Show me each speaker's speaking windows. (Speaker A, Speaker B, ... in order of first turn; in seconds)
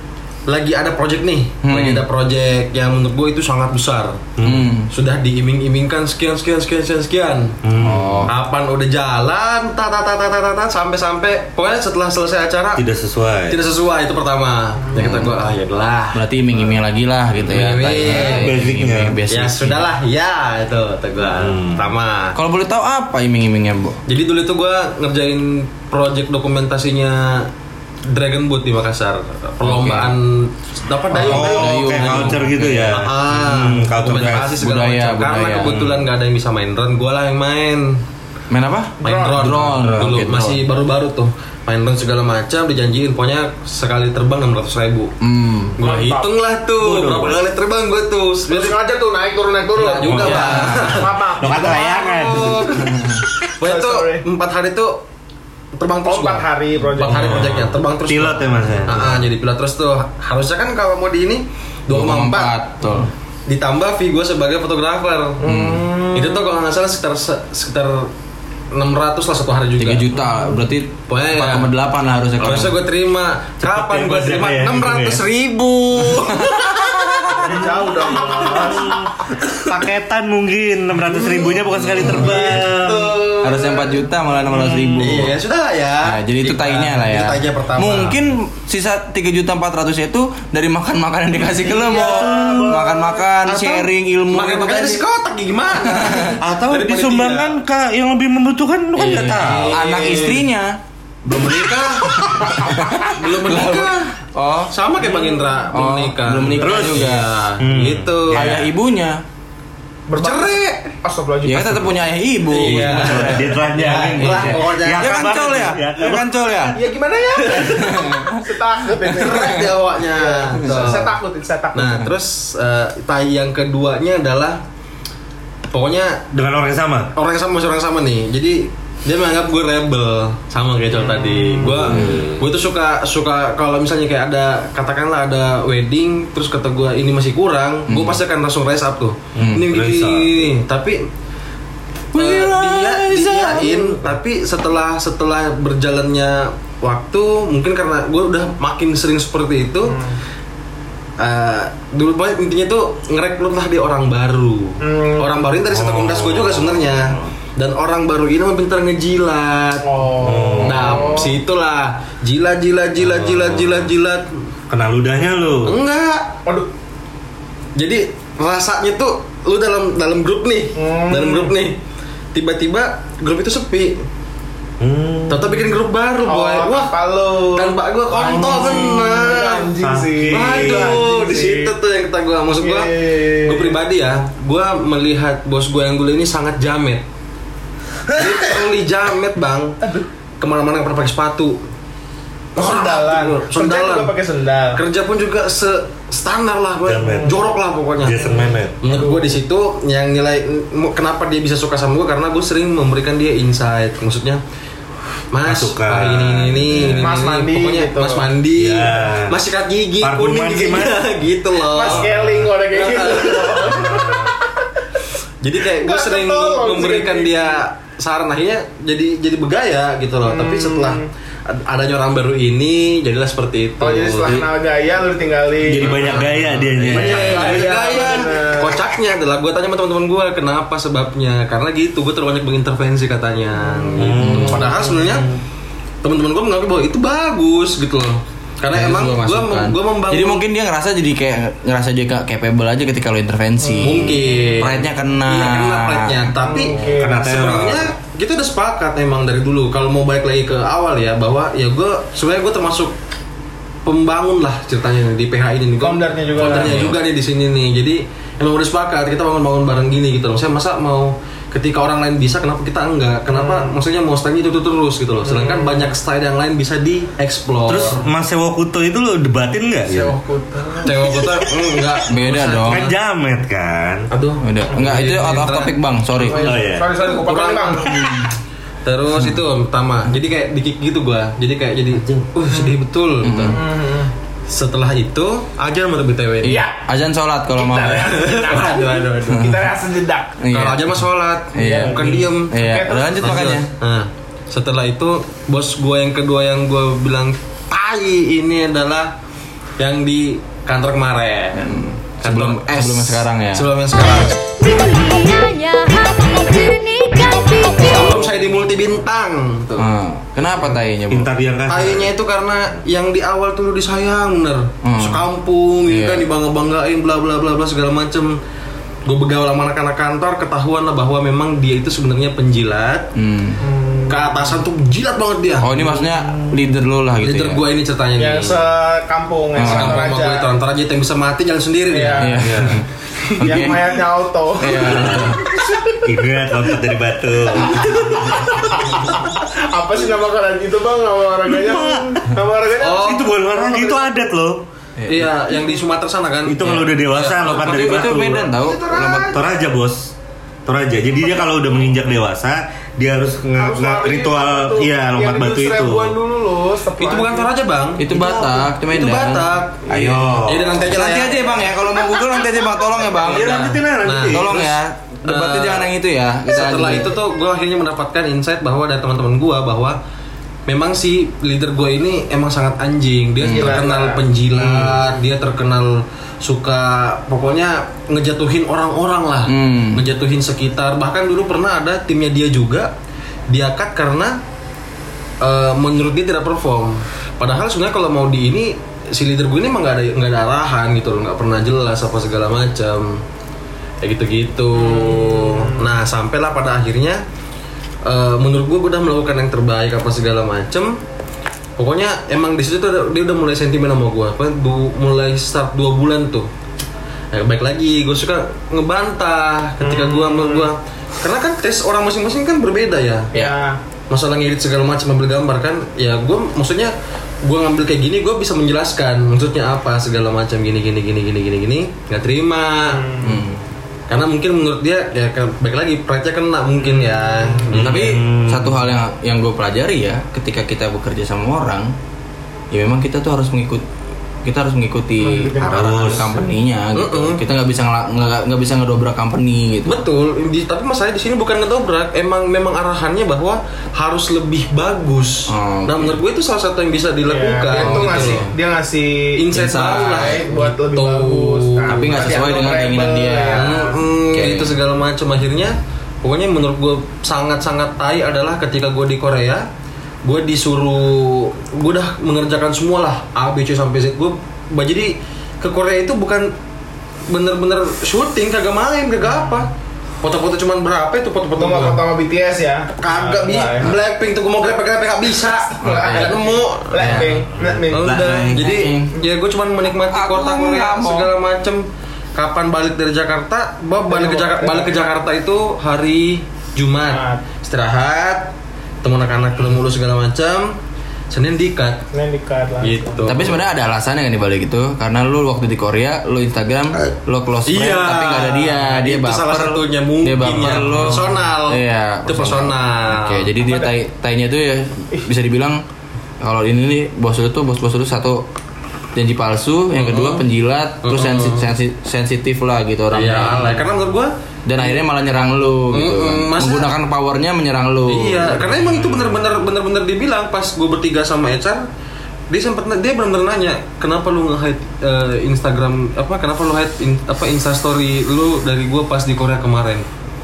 Speaker A: 0.5-4.3, 4.9-7.6, 8.3-12.8, 13.5-16.2, 17.4-18.5, 19.3-22.4, 24.1-27.5, 28.1-32.3, 32.9-38.0, 39.0-45.1, 45.8-48.8, 49.8-53.1, 53.6-55.0, 55.8-62.5, 63.5-65.4, 66.1-68.1, 68.7-70.1, 71.1-71.7, 72.4-77.6, 78.3-78.6, 81.4-84.0, 85.0-88.2, 93.5-97.6, 99.0-100.5, 101.3-104.1, 104.7-108.5, 110.2-110.9, 112.5-115.8, 117.4-118.0, 119.1-121.2, 121.8-124.6, 125.7-126.2, 127.2-141.1, 142.1-150.0, 151.2-159.9, 160.6-164.4, 165.7-166.3, 167.8-171.8, 172.3-174.1, 175.3-176.9, 177.5-179.7, 180.3-182.9, 183.4-187.1, 188.1-189.8, 190.4-191.6, 192.6-194.1, 194.8-204.4, 205.3-212.2, 212.7-214.3, 215.4-224.4, 225.8-235.3, 236.0-240.4, 243.8-252.9, 253.8-268.1, 270.8-272.9, 274.1-278.1, 278.9-283.6, 284.5-286.6, 288.1-289.2, 290.5-292.6, 293.1-299.1, 299.8-304.4, 307.8-309.9, 311.7-318.4, 319.1-323.1, 324.1-326.0, 327.2-328.6, 329.6-332.6, 342.8-343.3, 345.1-349.2, 357.0-361.6, 363.2-364.7, 365.2-365.9, 366.5-370.0, 370.7-382.9, 383.5-384.4, 385.4-393.2, 394.0-397.2, 398.0-401.0, 401.8-406.5, 407.3-413.3, 414.1-423.0, 424.1-428.0, 436.9-437.4, 439.9-448.4, 449.4-452.3, 453.6-459.7, 460.2-466.6, 467.3-469.7, 470.2-472.0, 473.0-477.3, 477.9-490.8, 491.3-492.1, 492.8-493.6, 497.7-503.5, 510.0-510.4, 511.0-511.7, 513.1-514.3, 515.9-516.9, 518.1-521.8, 522.5-530.1
Speaker B: 1.6-2.0, 4.4-4.9, 7.8-8.3, 15.0-15.3, 16.1-19.9, 22.4-24.0, 29.6-30.2, 31.2-33.0, 34.3-36.0, 38.5-40.6, 45.2-45.8, 50.2-50.9, 52.8-53.2, 61.9-63.1, 65.5-65.8, 69.8-72.8, 76.4-77.5, 83.4-85.3, 86.0-95.0, 95.9-96.3, 99.0-107.3, 108.3-109.2, 111.5-116.8, 117.5-118.5, 119.1-119.7, 131.9-132.2, 137.9-138.2, 139.4-139.7, 142.1-143.9, 234.2-234.8, 238.7-246.3, 256.5-257.0, 272.1-272.9, 274.4-276.5, 277.9-278.3, 283.2-283.6, 286.4-288.3, 289.3-289.6, 290.4-291.0, 291.5-293.7, 301.6-303.7, 309.8-311.3, 314.8-315.2, 315.9-316.3, 323.1-323.6, 325.6-327.6, 329.6-330.1, 332.2-332.9, 333.4-334.0, 334.6-335.5, 345.0-345.4, 346.6-346.9, 347.5-349.4, 358.0-359.5, 360.8-367.1, 373.4-373.8, 374.6-375.0, 379.5-380.0, 423.2-423.6, 427.7-431.9, 432.7-433.9, 434.4-440.1, 445.5-446.2, 447.7-448.5, 449.5-450.5, 451.9-453.8, 454.3-454.8, 475.8-476.4, 477.0-479.1, 480.1-481.3, 493.3-505.8, 506.4-508.5, 509.1-513.9, 514.7-518.6
Speaker C: 4.4-4.7, 7.6-8.3, 12.8-13.6, 17.9-19.2, 21.3-21.9, 31.2-34.6, 39.8-40.2, 46.8-47.4, 50.0-53.0, 57.0-59.3, 73.6-75.2, 77.4-83.2, 84.5-85.3, 92.0-92.9, 96.4-99.8, 106.6-108.7, 112.6-116.3, 126.3-127.1, 131.6-132.5, 139.4-140.6, 155.7-157.3, 160.2-161.3, 163.0-163.9, 164.7-165.8, 174.8-175.6, 179.8-181.0, 196.8-197.4, 198.0-198.9, 205.4-207.1, 208.5-209.4, 210.0-211.0, 211.9-212.4, 213.9-214.3, 225.6-227.8, 234.0-234.8, 246.9-247.9, 267.7-270.2, 272.6-274.1, 276.3-276.9, 311.1-312.1, 325.8-326.5, 332.4-332.8, 334.9-335.3, 336.0-338.5, 341.6-342.2, 343.0-344.6, 346.4-348.5, 349.2-350.1, 350.7-356.2, 359.9-360.9, 363.2-364.7, 427.7-428.8, 435.6-436.4, 478.0-478.4, 518.7-519.6
Speaker D: 31.1-31.7, 39.0-39.5, 45.8-46.4, 48.5-52.5, 53.6-54.3, 56.0-57.5, 65.4-66.6, 77.4-79.0, 82.0-82.9, 91.8-93.1, 110.1-112.0, 116.7-122.1, 130.9-131.8, 149.8-150.2, 154.8-155.5, 159.8-161.4, 170.8-171.5, 176.2-181.8, 182.6-183.8, 188.1-188.6, 192.6-194.8, 197.0-197.3, 198.2-199.4, 207.0-208.3, 211.7-214.4, 215.7-217.6, 220.2-221.1, 223.8-226.2, 226.8-228.9, 233.6-234.2, 234.8-235.2, 243.6-244.4, 246.4-247.2, 255.8-256.9, 263.3-263.8, 265.2-265.9, 269.9-271.3, 276.3-278.1, 283.5-284.1, 286.4-286.8, 287.6-290.4, 291.6-293.4, 323.6-324.6, 328.2-330.5, 331.9-332.4, 333.4-336.0, 337.6-344.1, 353.6-357.5, 373.4-374.2, 394.7-395.9, 409.8-410.7, 413.3-413.8, 422.9-423.4, 426.8-427.8, 435.2-436.4, 447.3-454.0, 471.6-474.0, 475.8-478.9, 484.1-484.9, 487.1-487.4, 492.1-493.2, 503.6-503.9
Speaker E: 304.4-308.1